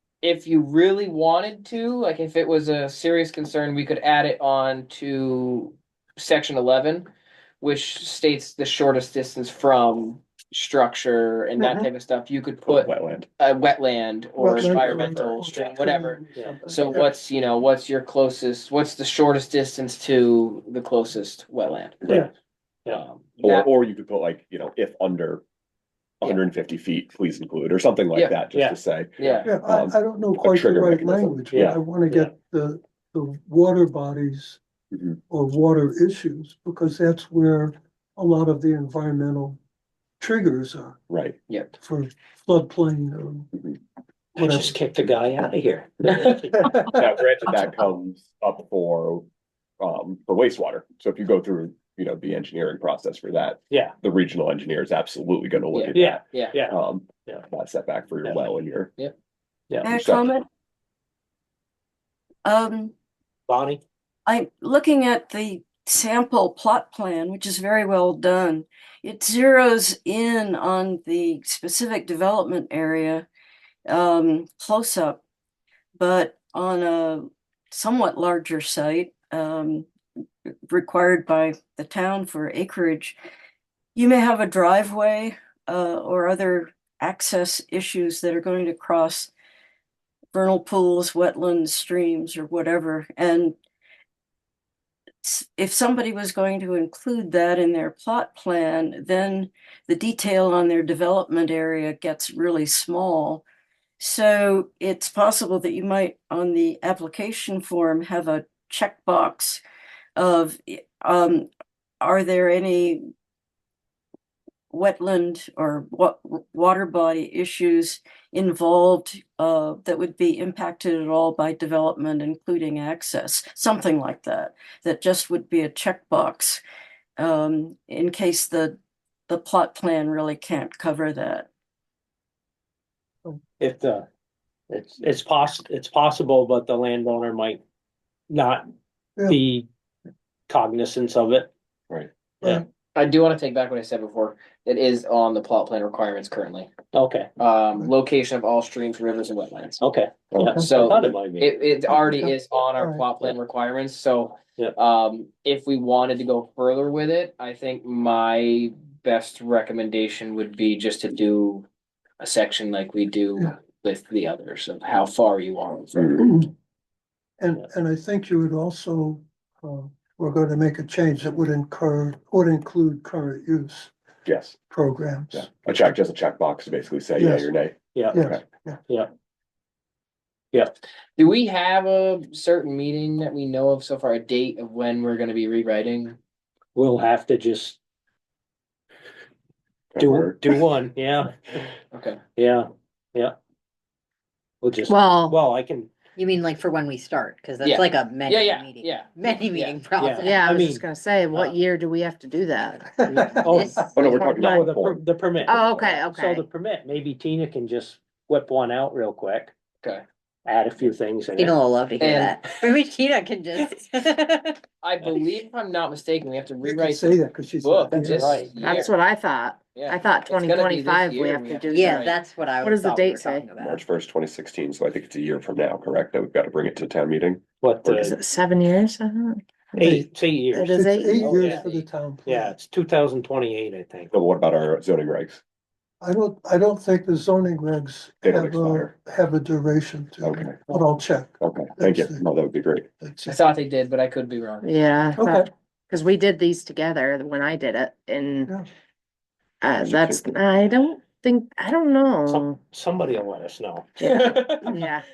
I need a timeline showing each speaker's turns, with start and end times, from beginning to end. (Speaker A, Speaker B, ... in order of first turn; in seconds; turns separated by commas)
Speaker A: 0.2-7.1, Speaker A: 7.6-22.0, Speaker B: 11.6-11.9, Speaker C: 12.7-13.3, Speaker B: 14.4-17.1, Speaker A: 22.9-23.7, Speaker C: 23.4-25.4, Speaker C: 26.2-31.8, Speaker D: 28.5-28.8, Speaker A: 29.2-29.5, Speaker B: 29.4-34.6, Speaker C: 34.9-35.2, Speaker B: 35.3-39.6, Speaker B: 40.2-41.0, Speaker C: 41.1-41.4, Speaker A: 41.5-41.7, Speaker B: 41.8-43.5, Speaker B: 44.4-44.7, Speaker D: 44.4-46.8, Speaker C: 46.9-49.2, Speaker C: 49.8-58.9, Speaker D: 53.7-54.0, Speaker A: 55.7-56.5, Speaker D: 55.9-56.7, Speaker E: 59.8-60.5, Speaker C: 59.8-60.3, Speaker E: 62.5-62.9, Speaker D: 63.5-63.8, Speaker E: 64.3-73.3, Speaker E: 73.9-75.2, Speaker E: 76.0-79.9, Speaker E: 80.7-83.2, Speaker E: 84.0-89.3, Speaker E: 90.3-93.5, Speaker E: 95.2-103.4, Speaker E: 104.0-109.6, Speaker E: 110.2-111.5, Speaker E: 112.0-113.0, Speaker E: 114.7-126.6, Speaker E: 127.2-128.8, Speaker E: 129.3-131.5, Speaker D: 133.6-134.1, Speaker D: 134.7-137.6, Speaker D: 138.3-138.7, Speaker D: 139.3-139.7, Speaker D: 140.5-141.5, Speaker A: 142.9-146.7, Speaker D: 146.9-147.3, Speaker A: 147.4-149.8, Speaker D: 149.8-151.5, Speaker C: 150.3-151.1, Speaker B: 150.4-150.7, Speaker A: 150.6-161.7, Speaker B: 151.9-153.1, Speaker A: 162.2-166.4, Speaker B: 166.2-166.5, Speaker B: 167.4-173.9, Speaker C: 174.2-174.6, Speaker B: 174.7-175.9, Speaker C: 175.3-178.4, Speaker B: 177.2-177.5, Speaker D: 177.9-178.2, Speaker B: 178.1-178.8, Speaker A: 181.2-186.2, Speaker D: 186.8-187.8, Speaker C: 189.9-190.4, Speaker D: 190.0-191.7, Speaker A: 191.9-192.2, Speaker D: 192.4-193.4, Speaker D: 194.6-195.9, Speaker F: 194.9-195.4, Speaker G: 196.2-200.6, Speaker A: 197.6-199.8, Speaker D: 200.0-201.5, Speaker F: 200.2-203.2, Speaker B: 203.0-203.9, Speaker G: 203.5-204.2, Speaker C: 203.9-205.0, Speaker F: 204.0-204.8, Speaker D: 204.4-209.5, Speaker F: 205.4-206.5, Speaker D: 210.4-211.5, Speaker G: 211.4-214.6, Speaker A: 212.0-212.5, Speaker A: 214.8-219.0, Speaker B: 216.6-218.5, Speaker D: 218.2-218.5, Speaker F: 218.6-222.0, Speaker A: 219.7-222.2, Speaker G: 221.5-223.9, Speaker F: 222.6-223.5, Speaker C: 223.6-228.1, Speaker D: 227.6-228.1, Speaker F: 227.9-229.9, Speaker B: 229.8-230.1, Speaker D: 229.8-230.7, Speaker F: 230.5-231.3, Speaker B: 230.7-232.6, Speaker A: 231.1-231.8, Speaker D: 232.2-234.1, Speaker C: 234.1-235.4, Speaker B: 236.0-242.2, Speaker C: 238.2-238.9, Speaker C: 240.2-240.6, Speaker C: 241.4-242.9, Speaker B: 243.0-243.4, Speaker A: 243.3-244.7, Speaker F: 244.6-248.5, Speaker B: 245.2-245.5, Speaker F: 249.6-252.6, Speaker C: 249.8-250.2, Speaker D: 252.3-254.0, Speaker A: 254.0-254.8, Speaker F: 254.7-255.0